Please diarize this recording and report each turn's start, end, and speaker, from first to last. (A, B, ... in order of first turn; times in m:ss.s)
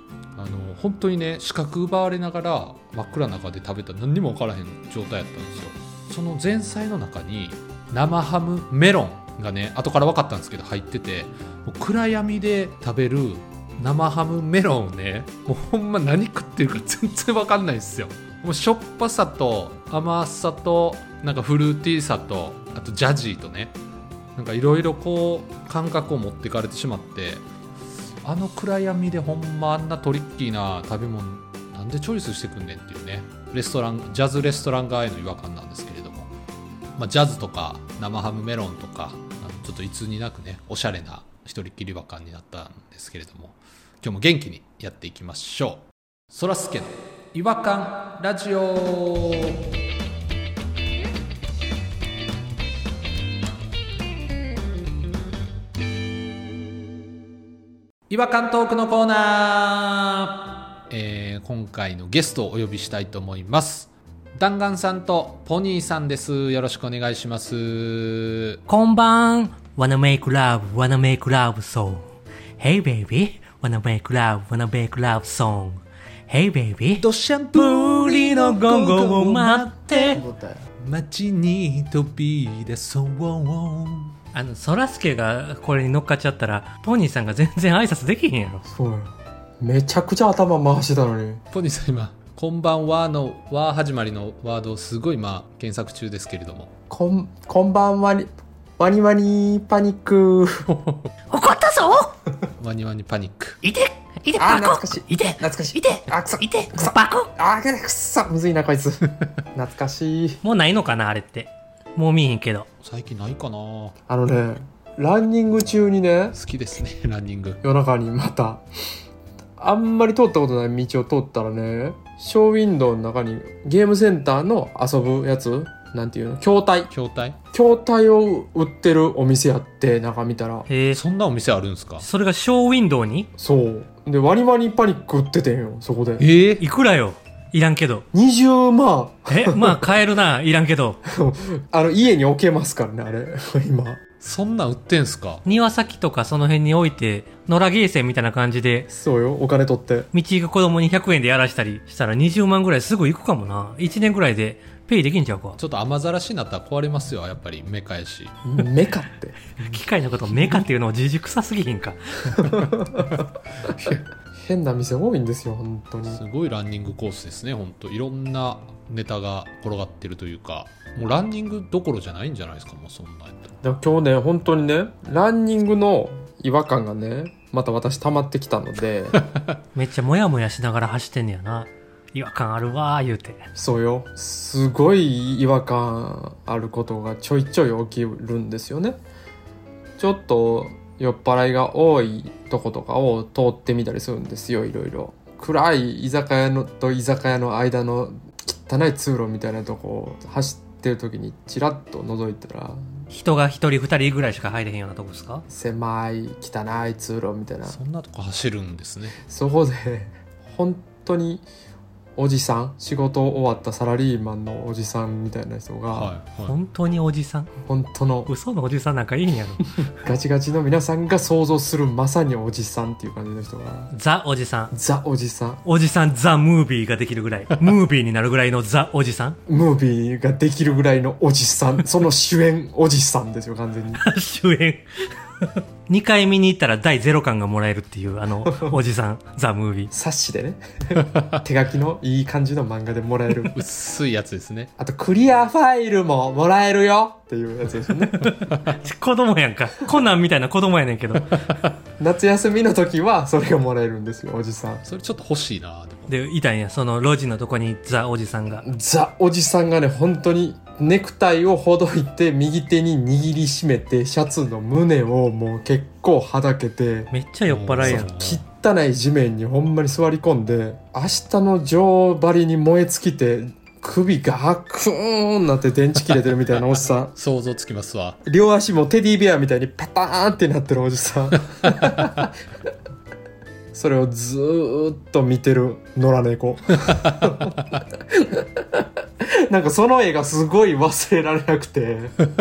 0:00.4-0:23.8 A
0:24.4-0:27.4 A
0:28.2-0:36.3 A
0:37.0-0:49.6 A
0:58.1-1:08.6 A
1:08.7-1:12.0 B
1:12.6-1:20.2 B
1:17.0-1:20.2 A
1:20.0-1:20.6 C
1:20.8-1:24.2 A
1:24.3-1:28.6 B
1:28.7-1:31.4 C
1:31.5-1:36.7 A
1:36.9-1:40.7 C
1:40.7-1:41.1 A
1:41.3-1:42.1 B
1:42.6-1:43.6 A
1:43.6-1:47.3 B
1:44.4-1:50.4 C
1:50.4-1:52.7 B
1:52.8-1:53.9 A
1:54.1-1:56.4 C
1:56.3-1:57.6 A
1:57.6-1:58.6 C
1:59.6-2:06.9 C
2:06.9-2:07.4 A
2:07.5-2:10.7 C
2:10.7-2:11.0 B
2:10.9-2:12.1 A
2:12.0-2:13.3 B
2:13.4-2:16.2 C
2:16.2-2:16.6 A
2:16.6-2:18.1 B
2:18.1-2:19.9 C
2:19.3-2:21.0 B
2:21.1-2:24.0 C
2:24.2-2:25.4 A
2:25.4-2:28.9 B
2:28.9-2:30.1 C
2:30.1-2:35.6 B
2:35.6-2:38.3 A
2:38.4-2:39.6 C
2:39.6-2:42.5 B
2:42.4-2:46.2 C
2:46.1-2:53.5 A
2:53.6-2:59.2 C
2:59.7-3:03.5 B
3:03.6-3:09.0 C
3:10.0-3:22.9 C
3:23.1-3:25.5 B
3:25.5-3:27.8 C
3:27.7-3:29.2 A
3:29.3-3:31.5 C
3:32.2-3:36.1 C
3:35.9-3:36.6 A
3:36.4-3:37.5 B
3:37.7-3:38.3 C
3:38.3-3:39.7 B
3:40.0-3:43.9 C
3:43.9-3:44.7 B
3:44.7-3:45.6 C
3:45.6-3:49.4 B
3:49.5-3:54.0 C
3:54.0-3:54.9 B
3:55.4-3:59.9 B
3:58.4-3:58.8 C
3:59.9-4:03.6 C
4:03.5-4:04.7 A
4:04.8-4:08.4 C
4:08.1-4:11.4 B
4:12.0-4:14.8 C
4:14.8-4:16.1 A
4:16.1-4:18.6 B
4:18.6-4:27.1 C
4:27.1-4:28.1 B
4:27.5-4:28.4 A
4:27.8-4:37.1 C
4:36.1-4:38.2 A
4:38.3-4:42.3 C
4:43.7-4:47.6 C
4:48.1-4:52.2 C